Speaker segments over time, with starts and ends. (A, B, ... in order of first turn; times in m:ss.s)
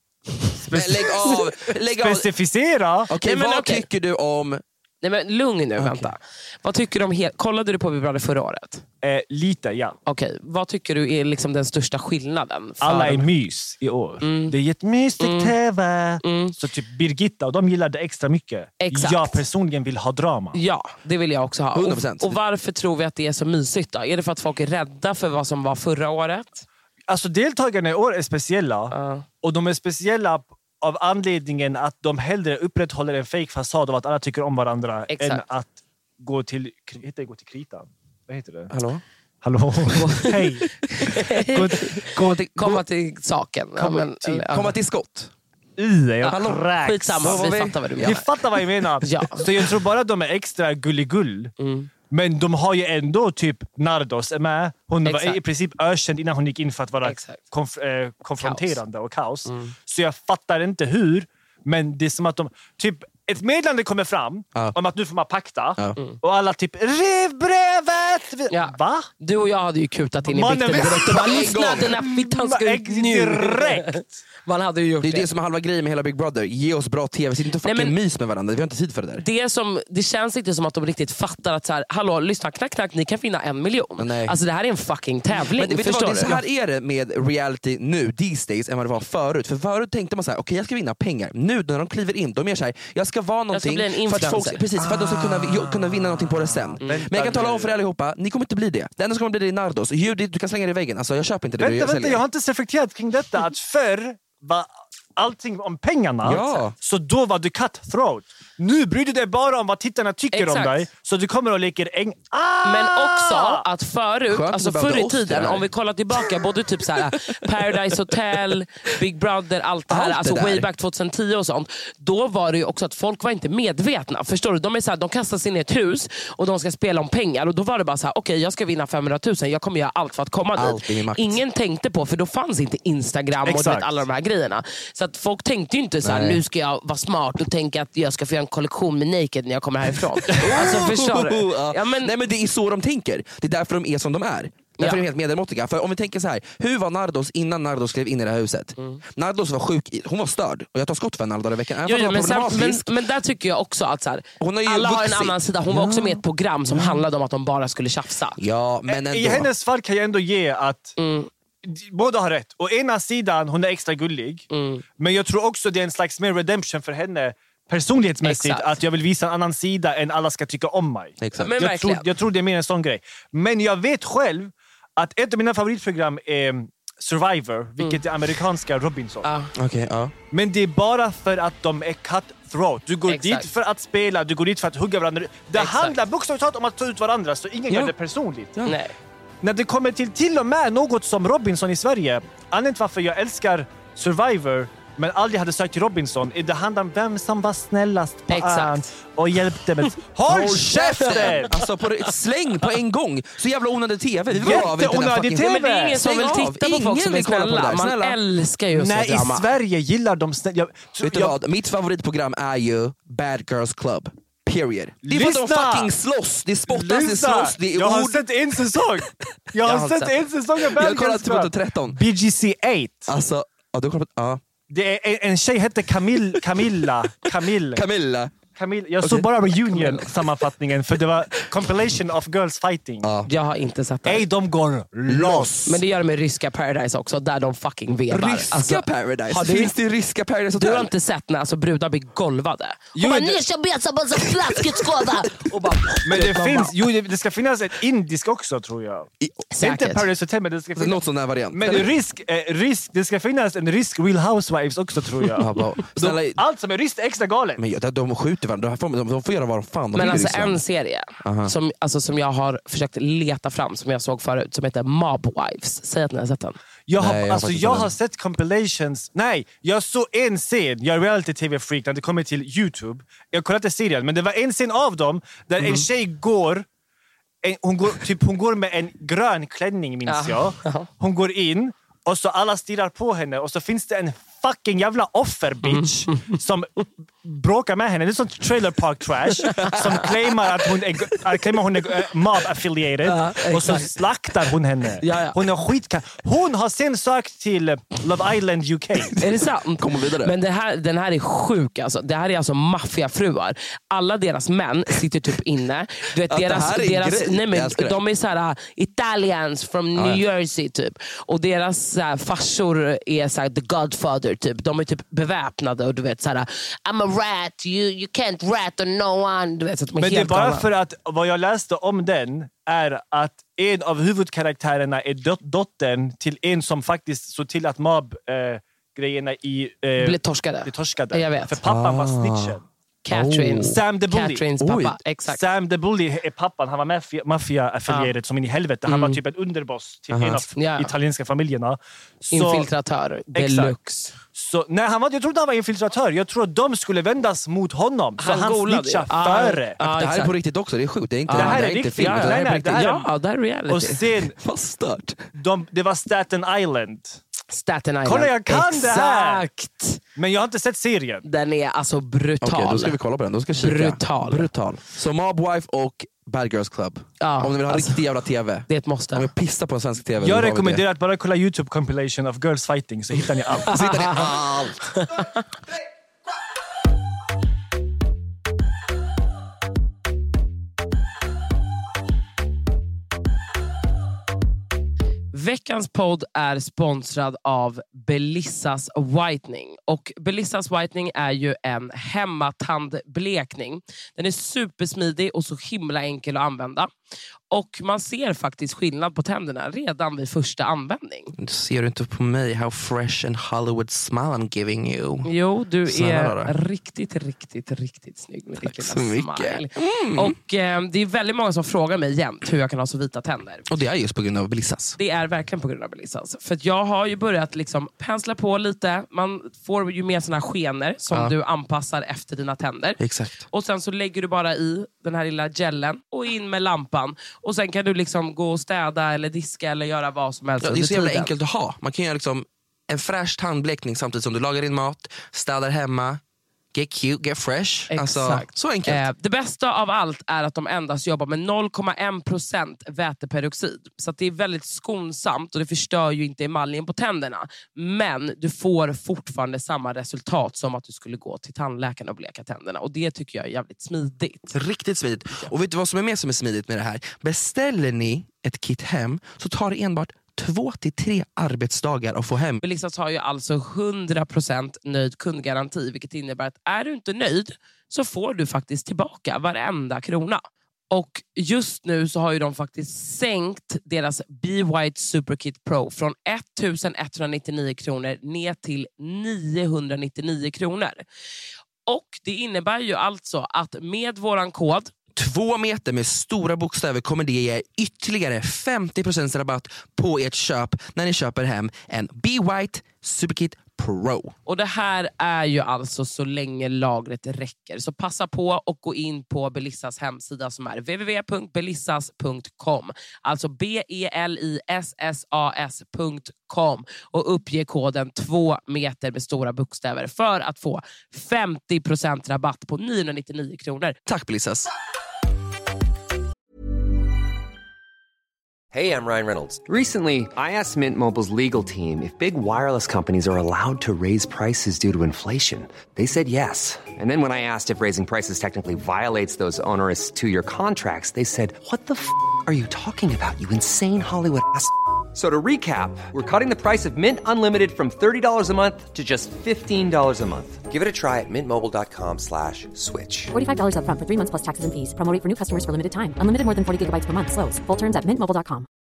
0:00.5-0:03.1 A
0:00.7-0:02.3 B
0:03.1-0:04.6 B
0:03.2-0:03.9 C
0:05.0-0:08.8 C
0:05.8-0:06.2 B
0:09.0-0:10.0 A
0:10.1-0:13.3 C
0:12.8-0:20.6 A
0:14.2-0:14.6 C
0:15.2-0:15.5 C
0:16.2-0:16.5 C
0:18.8-0:19.4 C
0:20.5-0:26.7 C
0:21.8-0:22.4 B
0:27.1-0:38.7 A
0:28.9-0:29.2 C
0:35.1-0:35.4 C
0:38.7-0:39.0 B
0:39.4-0:40.7 A
0:40.0-0:40.3 C
0:41.0-0:44.8 C
0:41.5-0:42.0 A
0:42.0-0:42.8 B
0:43.8-0:44.2 A
0:44.3-0:45.3 B
0:45.8-0:51.5 A
0:46.3-0:46.7 B
0:46.8-0:48.3 C
0:47.2-0:48.3 B
0:49.0-0:49.5 C
0:51.6-0:51.9 C
0:52.1-1:09.1 A
0:55.0-0:55.4 C
0:57.0-0:57.4 C
0:58.4-0:58.8 C
0:59.5-0:59.7 C
1:08.5-1:15.3 C
1:10.3-1:14.2 A
1:10.8-1:11.9 B
1:15.0-1:19.2 B
1:17.6-1:18.0 C
1:19.2-1:26.4 C
1:24.0-1:24.4 B
1:25.3-1:42.2 B
1:33.5-1:34.6 C
1:34.8-1:37.8 A
1:41.6-1:53.6 A
1:46.2-1:46.8 B
1:50.3-1:50.9 C
1:52.6-2:22.1 C
1:54.3-1:55.7 B
1:59.9-2:00.7 B
2:10.6-2:11.4 B
2:13.4-2:14.0 A
2:16.0-2:16.4 B
2:20.4-2:32.9 B
2:31.8-2:38.4 C
2:34.4-2:37.0 B
2:38.4-2:39.5 B
2:38.9-2:41.0 A
2:41.0-2:41.3 C
2:41.6-2:44.4 A
2:44.5-2:44.8 C
2:45.0-2:59.3 A
2:48.2-2:48.8 C
2:51.2-2:51.6 B
2:51.4-2:52.1 C
2:59.2-2:59.5 C
2:59.6-3:00.1 B
3:00.3-3:08.5 A
3:03.1-3:03.5 C
3:05.5-3:06.0 C
3:08.6-3:08.9 C
3:09.4-3:21.5 A
3:18.3-3:18.9 C
3:20.3-3:28.2 B
3:24.3-3:26.0 A
3:25.4-3:29.5 C
3:28.7-3:31.4 A
3:31.0-3:38.3 B
3:35.0-3:35.9 A
3:36.7-3:43.1 A
3:39.6-3:40.1 C
3:40.7-3:42.0 B
3:43.1-3:44.4 B
3:44.7-3:47.8 A
3:47.2-3:48.3 B
3:48.6-3:53.1 A
3:49.0-3:50.3 B
3:53.0-3:53.3 B
3:53.3-3:54.3 C
3:54.1-3:55.6 A
3:55.1-3:55.8 B
3:55.7-3:59.7 C
3:58.1-4:00.9 B
4:00.6-4:05.4 C
4:03.0-4:03.4 A
4:04.2-4:06.7 B
4:05.5-4:17.6 A
4:09.2-4:09.5 B
4:09.5-4:10.0 C
4:10.8-4:11.9 B
4:15.4-4:16.4 B
4:17.6-4:20.6 B
4:19.9-4:26.6 C
4:21.2-4:21.5 B
4:26.9-4:36.7 A
4:27.0-4:27.9 B
4:37.4-4:59.2 A
4:40.1-4:40.9 C
4:49.4-4:49.7 C
4:53.1-4:54.0 C
4:55.0-4:55.4 C
4:59.2-5:20.7 C
4:59.8-5:00.3 B
5:06.2-5:08.0 B
5:10.0-5:10.2 B
5:20.0-5:32.7 A
5:30.0-5:31.6 C
5:31.6-5:32.6 B
5:33.0-5:35.4 C
5:33.1-5:33.8 B
5:33.6-5:34.5 A
5:34.6-5:35.0 B
5:35.3-5:42.7 A
5:38.9-5:39.2 C
5:40.1-5:40.4 B
5:40.6-5:40.9 C
5:42.3-5:44.1 C
5:43.3-5:43.8 A
5:44.3-5:49.8 A
5:48.2-5:50.3 C
5:49.8-5:52.8 B
5:51.3-5:54.0 C
5:51.3-5:53.1 A
5:53.7-5:54.4 A
5:54.4-5:55.2 B
5:55.4-5:57.2 A
5:57.5-6:00.0 C
5:58.0-5:59.5 A
6:00.2-6:01.2 A
6:01.2-6:03.0 C
6:02.4-6:10.8 B
6:03.6-6:04.5 C
6:07.2-6:08.0 C
6:08.7-6:09.3 C
6:10.2-6:13.8 A
6:13.6-6:14.9 B
6:13.7-6:14.2 C
6:15.0-6:15.3 C
6:25.3-6:36.9 C
6:37.5-6:41.3 C
6:41.4-6:45.3 B
6:45.2-6:53.7 C
6:45.9-6:46.5 B
6:48.6-6:50.4 B
6:53.7-6:55.0 B
6:55.0-7:11.3 C
7:03.0-7:03.5 B
7:10.6-7:16.2 B
7:16.7-7:19.0 B
7:17.9-7:34.6 C
7:34.5-7:42.6 B
7:42.6-8:01.0 C
8:01.9-8:04.9 C
8:05.2-8:14.4 B
8:14.5-8:34.0 C
8:34.1-8:34.7 B
8:38.7-9:03.3 D
9:03.3-9:08.7 E